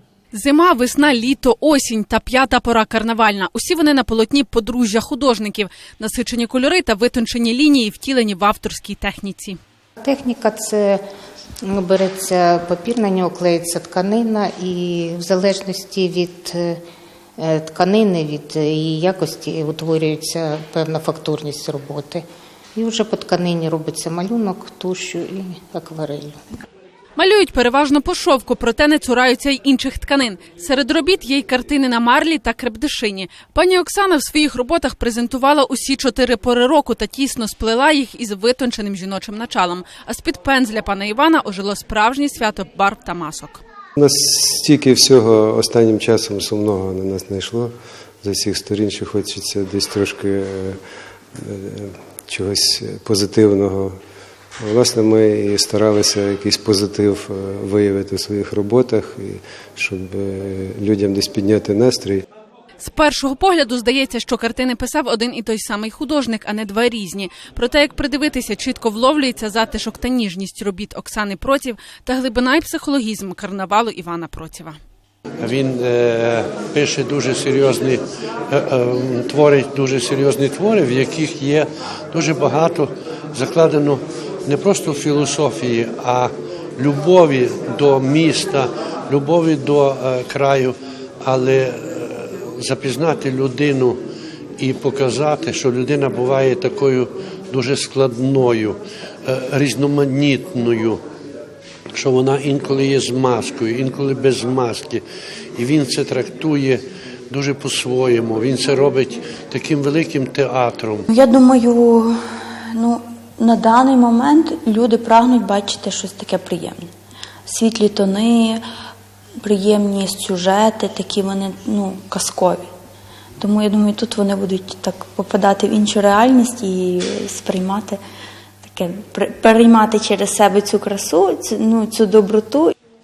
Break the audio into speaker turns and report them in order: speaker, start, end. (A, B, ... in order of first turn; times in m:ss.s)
0:00.3-0:09.6 A
0:10.0-0:11.0 B
0:11.6-0:16.8 B
0:17.4-0:26.4 B
0:27.2-0:43.6 A
0:44.0-0:50.8 C
0:51.4-0:54.0 C
0:54.6-1:02.2 C
1:02.8-1:14.8 A
1:15.4-1:34.0 D
1:34.6-1:41.0 D
1:41.9-1:45.0 D
1:45.6-1:51.1 D
1:51.1-1:52.2 E
1:52.7-1:56.9 E
1:57.5-1:58.6 E
1:59.4-2:02.7 E
2:03.4-2:08.0 E
2:08.7-2:12.7 E